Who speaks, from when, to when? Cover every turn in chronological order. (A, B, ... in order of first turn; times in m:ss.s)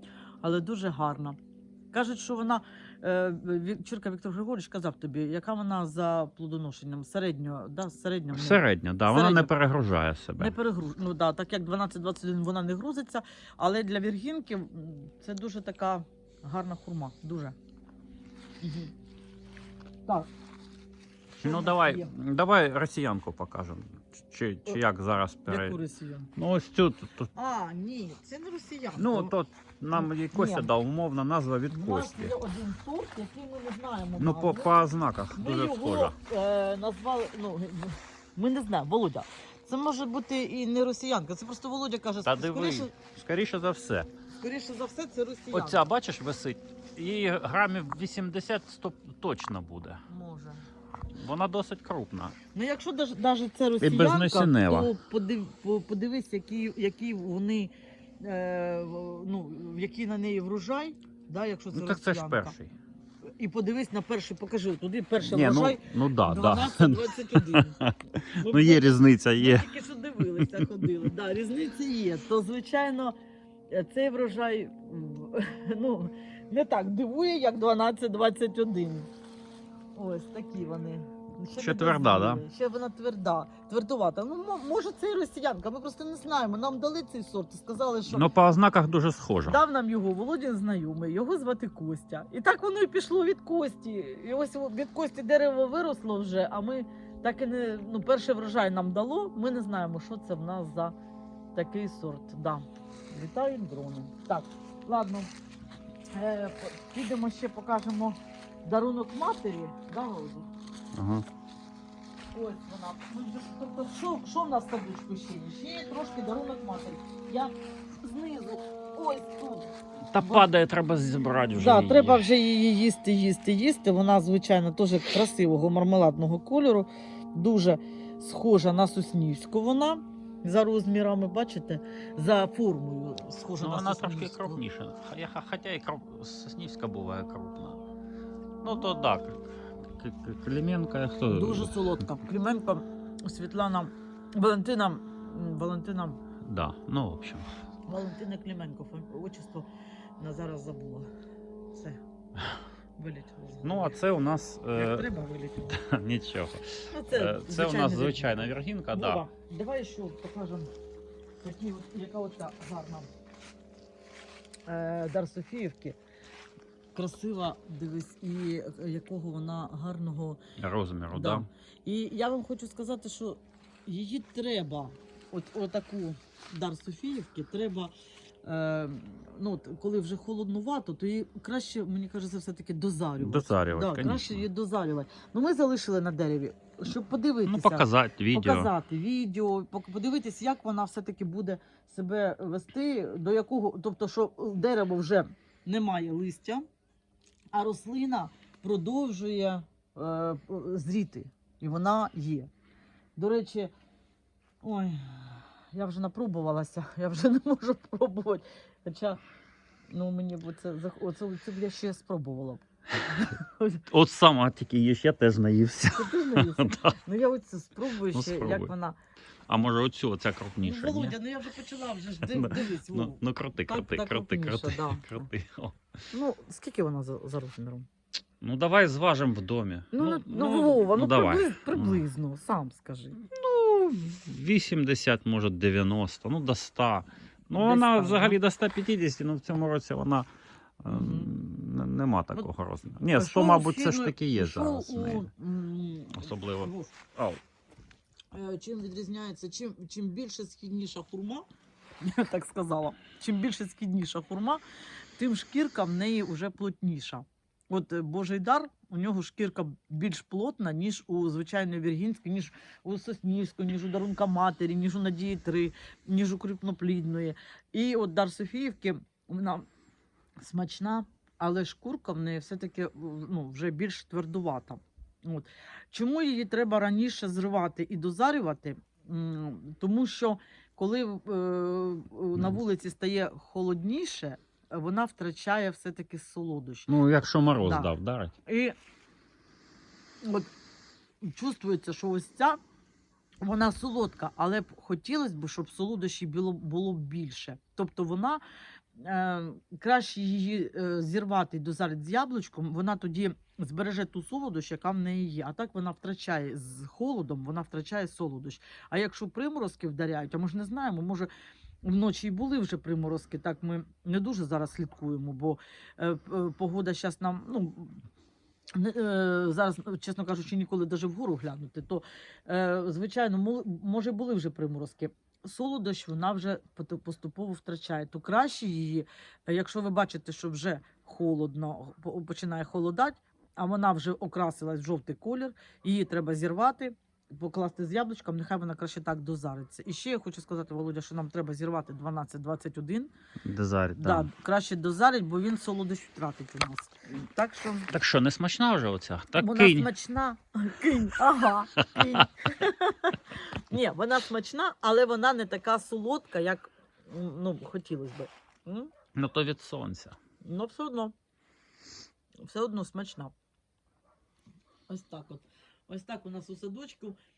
0:00.4-0:01.4 A
0:01.9-0:09.5 A
0:08.3-0:10.5 B
0:10.4-0:17.5 A
0:18.6-0:18.9 A
0:21.4-0:22.1 A
0:21.4-0:25.8 B
0:25.5-0:26.3 A
0:26.4-0:27.3 B
0:27.4-0:29.3 A
0:29.0-0:32.3 B
0:29.9-0:30.7 A
0:31.7-0:34.7 A
0:34.2-0:36.1 B
0:35.3-0:42.9 A
0:42.2-0:44.1 B
0:44.4-0:45.8 A
0:45.5-0:50.0 B
0:50.1-0:50.6 A
0:51.1-0:52.3 B
0:52.5-1:02.5 A
0:53.8-0:54.9 B
1:01.7-1:02.8 B
1:03.4-1:13.2 A
1:05.2-1:11.0 B
1:13.7-1:19.1 A
1:19.9-1:28.3 A
1:21.6-1:22.4 B
1:28.1-1:29.6 B
1:29.4-1:41.0 A
1:41.5-1:45.3 A
1:46.1-1:50.5 A
1:50.9-1:51.2 B
1:52.3-2:00.5 A
2:00.1-2:02.3 B
2:01.5-2:14.6 A
2:13.6-2:17.8 B
2:18.6-2:22.0 B
2:21.3-2:26.2 A
2:26.4-2:27.5 B
2:27.9-2:29.7 A
2:30.2-2:31.1 A
2:31.7-2:32.0 A
2:33.0-2:34.0 A
2:33.6-2:35.1 B
2:34.7-2:35.8 A
2:35.7-2:39.2 B
2:36.9-2:40.7 A
2:41.4-2:43.1 A
2:44.7-2:46.0 A
2:46.9-2:50.4 A
2:50.6-2:51.5 B
2:51.1-2:57.9 A
2:58.4-3:16.6 A
3:03.2-3:04.4 B
3:07.4-3:08.7 B
3:17.5-3:22.5 A
3:23.2-3:23.7 A
3:24.6-3:29.2 A
3:29.9-3:33.8 A
3:33.9-3:37.0 B
3:35.9-3:39.0 A
3:38.1-3:38.7 B
3:39.5-3:41.2 B
3:40.6-3:45.2 A
3:42.2-3:45.8 B
3:46.1-3:47.9 A
3:48.4-3:52.0 B
3:49.9-3:53.2 A
3:53.3-4:00.3 B
3:57.5-3:58.4 A
4:00.8-4:05.3 B
4:00.9-4:01.3 A
4:03.1-4:06.9 A
4:06.1-4:07.4 B
4:08.3-4:11.4 A
4:12.0-4:14.6 A
4:15.2-4:29.7 A
4:30.4-4:46.9 A
4:46.9-4:48.3 B
4:47.6-4:47.9 A
4:48.4-4:48.7 A
4:50.2-4:50.5 A
4:51.2-4:52.6 A
4:53.4-4:58.4 A
4:59.0-5:11.3 A
5:11.8-5:18.0 A
5:18.7-5:43.1 A
5:43.4-5:44.3 B
5:44.0-5:47.9 A
5:47.9-5:49.9 B
5:49.4-5:58.9 A
5:51.8-5:52.2 B
5:59.1-6:00.2 B
6:00.4-6:01.1 A
6:02.4-6:03.3 A
6:04.9-6:07.2 A